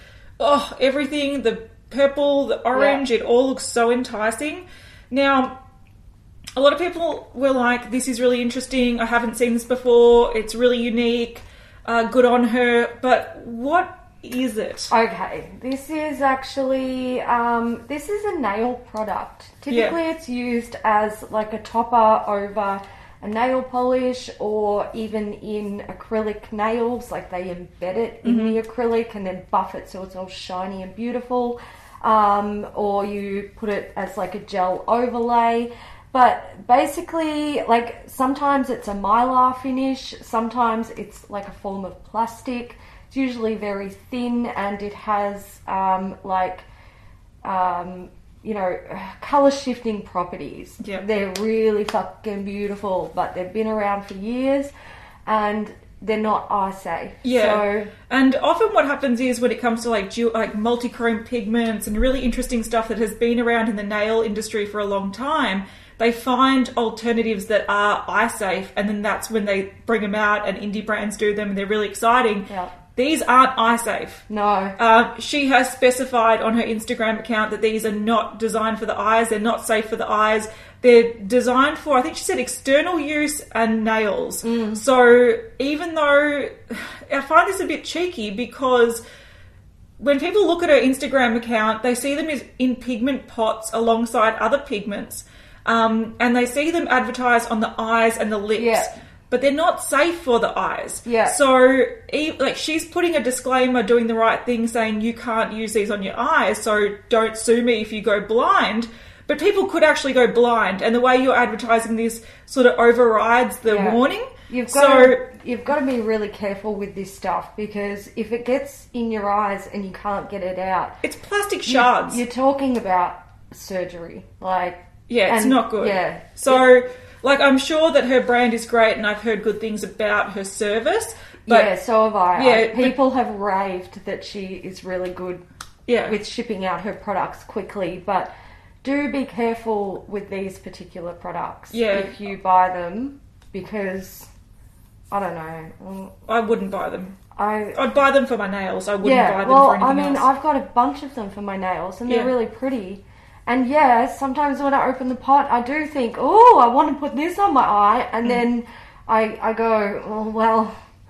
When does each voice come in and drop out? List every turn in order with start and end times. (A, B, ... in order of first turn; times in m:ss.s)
0:00.4-0:05.6 A
0:02.7-0:03.0 B
0:06.6-0:14.9 A
0:14.9-0:46.6 B
0:19.7-0:20.0 A
0:28.2-0:28.6 A
0:47.4-0:54.7 B
0:55.2-0:57.9 B
0:57.2-1:14.2 A
1:12.5-1:12.7 B
1:14.3-1:14.8 B
1:14.8-1:29.0 A
1:24.4-1:24.8 B
1:30.0-1:55.2 A
1:38.6-1:38.9 B
1:41.0-1:41.4 B
1:53.6-2:01.0 B
2:01.0-2:02.2 A
2:01.7-2:06.6 B
2:05.1-2:11.7 A
2:11.5-2:15.4 B
2:12.3-2:13.0 A
2:15.9-2:16.2 A
2:16.0-2:18.3 B
2:18.8-2:24.3 B
2:21.7-2:22.1 A
2:25.1-2:26.1 B
2:26.2-2:27.2 A
2:27.3-2:27.8 B
2:27.7-2:30.3 A
2:29.0-2:40.7 B
2:32.1-2:32.3 A